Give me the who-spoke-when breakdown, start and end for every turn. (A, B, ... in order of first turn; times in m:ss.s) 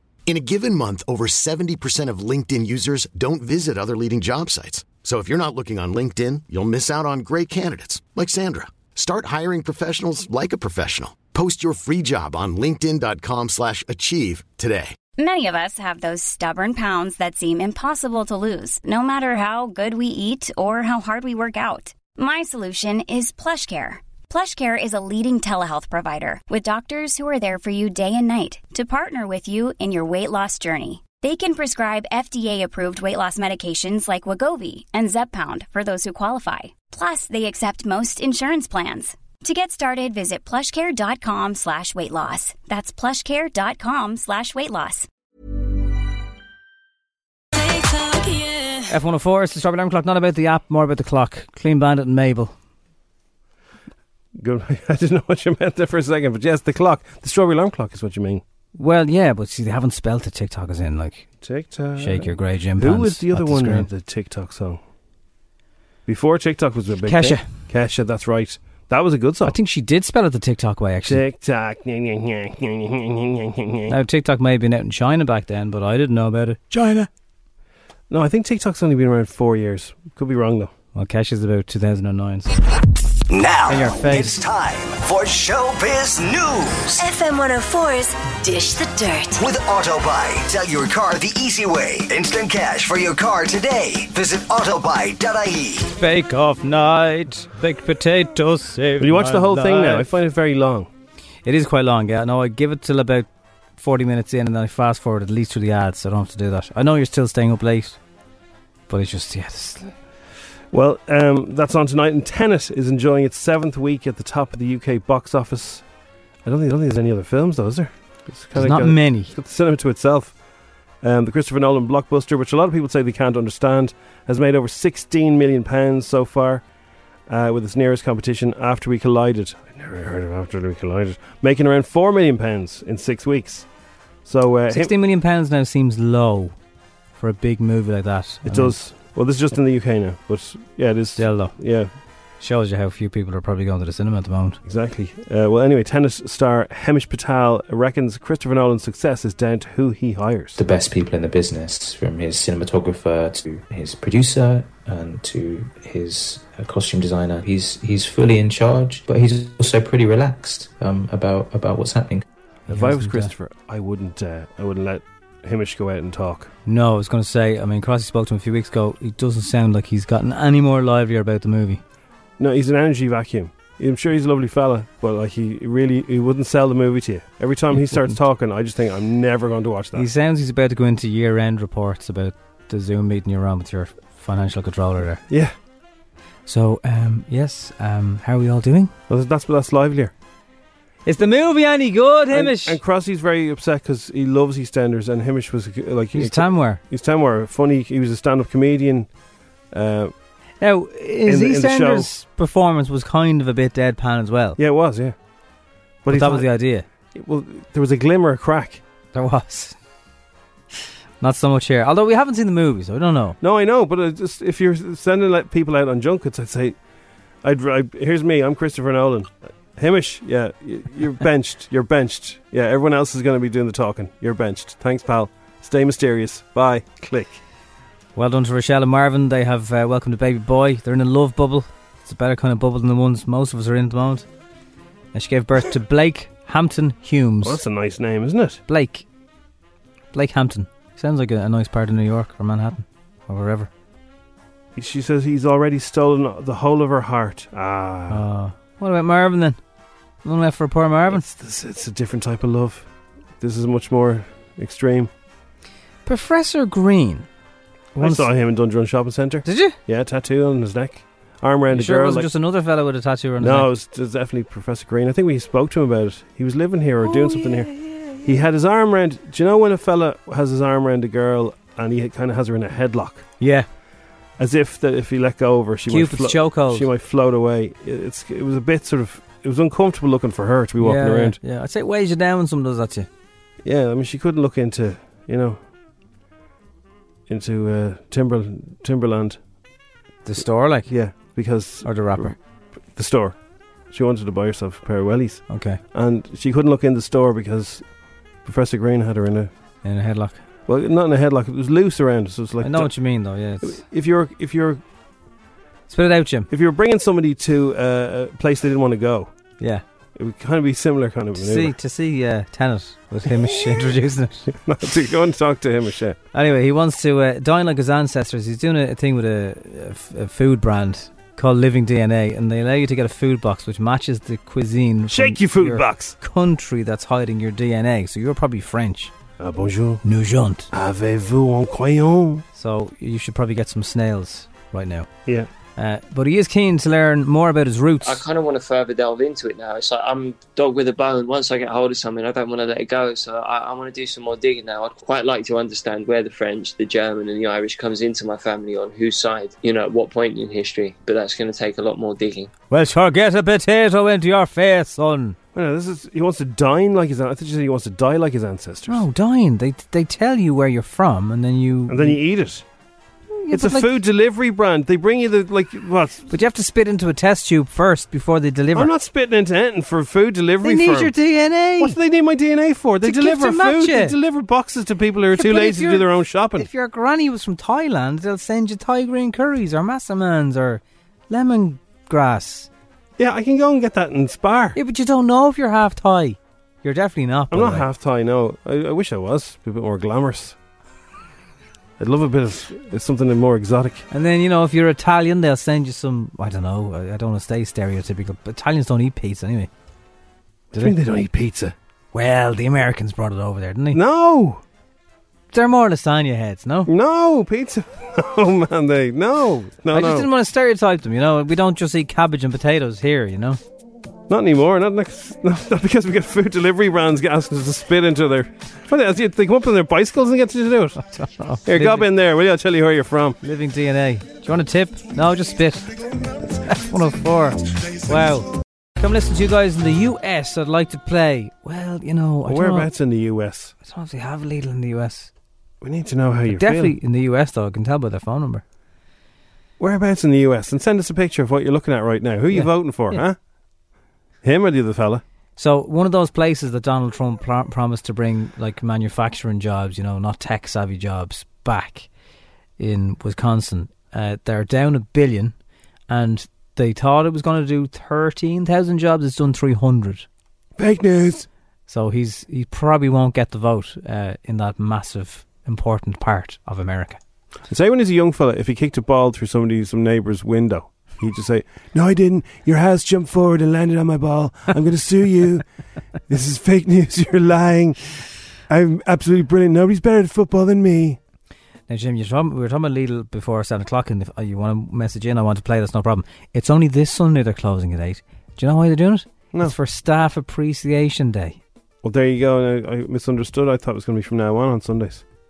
0:00.3-0:15.0 A
0:15.2-0:45.1 B
0:48.9-0:52.5 C
0:54.4-0:58.4 D
0:58.8-1:01.3 C
1:01.4-1:04.8 D
1:02.0-1:03.9 C
1:06.1-1:09.6 D
1:07.1-1:07.5 C
1:09.4-1:11.2 C
1:11.1-1:14.0 D
1:13.9-1:17.1 C
1:18.1-1:20.7 D
1:21.0-1:22.5 C
1:23.3-1:27.0 E
1:23.7-1:24.3 C
1:27.0-1:29.4 F
1:29.4-1:35.9 E
1:35.9-1:40.1 C
1:39.0-1:40.9 D
1:41.5-1:48.0 C
1:48.9-1:50.0 C
1:50.7-1:55.8 D
1:56.4-2:00.4 D
1:58.6-1:59.4 C
2:01.0-2:06.6 D
2:07.3-2:13.7 D
2:14.2-2:14.9 D
2:14.7-2:16.6 C
2:17.2-2:18.8 C
2:18.4-2:21.9 D
2:21.2-2:21.6 C
2:22.4-2:24.6 C
2:24.6-2:30.6 D
2:30.6-2:42.2 G
2:42.7-2:43.3 C
2:42.7-2:46.5 D
2:46.7-2:51.8 C
2:52.4-3:00.1 D
2:57.8-2:58.2 C
2:59.9-3:05.2 C
3:05.3-3:05.5 D
3:06.5-3:08.9 C
3:09.1-3:10.1 D
3:11.0-3:12.8 C
3:12.3-3:19.1 D
3:16.1-3:16.8 C
3:19.7-3:20.1 D
3:20.6-3:24.6 C
3:21.3-3:22.1 D
3:24.6-3:25.2 D
3:26.0-3:26.5 D
3:26.1-3:26.9 C
3:27.1-3:28.8 D
3:29.1-3:29.8 C
3:31.2-3:33.4 C
3:33.4-3:36.8 D
3:37.4-3:47.4 D
3:48.2-3:54.3 C
3:55.1-3:57.6 C
3:57.4-3:58.6 D
3:58.7-3:59.0 C
4:00.1-4:03.7 C
4:04.8-4:08.2 D
4:08.1-4:09.6 C
4:10.2-4:11.3 C
4:11.1-4:12.9 D
4:13.4-4:15.1 D
4:16.1-4:17.3 C
4:18.0-4:22.3 D
4:18.0-4:18.3 C
4:19.4-4:19.8 C
4:21.7-4:23.7 C
4:23.4-4:27.7 D
4:27.0-4:28.4 C
4:28.2-4:33.3 D
4:33.4-4:33.7 C
4:34.4-4:41.4 D
4:35.9-4:36.9 C
4:40.8-4:43.1 C
4:43.6-4:45.7 D
4:47.3-4:49.4 D
4:50.2-4:50.9 C
4:50.9-4:53.4 D
4:51.8-4:52.4 C
4:53.9-4:57.9 D
4:55.5-4:55.8 C
4:58.4-4:59.5 D
4:59.8-5:00.4 C
5:00.7-5:02.9 D
5:02.6-5:03.8 C
5:03.6-5:04.8 D
5:05.9-5:06.5 C
5:06.5-5:09.3 D
5:10.2-5:11.8 D
5:11.4-5:14.5 C
5:14.5-5:16.2 D
5:16.3-5:29.1 C
5:25.1-5:26.2 D
5:29.4-5:30.0 D
5:30.0-5:30.7 C
5:30.7-5:32.4 D
5:32.6-5:35.1 C
5:35.8-5:38.2 C
5:38.0-5:52.5 H
5:52.7-5:55.4 C
5:55.5-5:59.0 D
5:58.9-6:02.2 C
6:01.9-6:02.6 D
6:03.4-6:03.9 C
6:03.5-6:06.3 D
6:06.3-6:08.9 C
6:08.7-6:11.1 D
6:10.6-6:12.0 C
6:11.8-6:16.7 D
6:13.0-6:14.2 C
6:15.4-6:22.7 C
6:23.2-6:24.8 D
6:24.8-6:27.9 C
6:27.5-6:30.6 D
6:32.0-6:34.0 D
6:34.1-6:39.7 C
6:40.8-6:41.8 D
6:42.1-6:44.0 C
6:43.9-6:44.6 D
6:45.5-6:46.9 C
6:46.9-6:50.3 D
6:49.9-6:53.6 C
6:54.3-7:01.0 D
7:01.0-7:02.1 C
7:01.7-7:03.4 D
7:03.4-7:06.0 C
7:06.6-7:12.9 C
7:12.4-7:13.7 D
7:13.8-7:15.3 C
7:15.8-7:17.0 D
7:16.5-7:18.6 C
7:19.8-7:23.4 D
7:22.5-7:23.2 C
7:24.4-7:25.2 D
7:25.6-7:32.1 C
7:32.8-7:35.5 C
7:36.1-7:40.3 C
7:40.8-7:41.5 D
7:41.9-7:47.2 C
7:47.7-7:55.6 D
7:56.3-8:01.2 D
8:01.9-8:11.6 C
8:12.0-8:15.2 D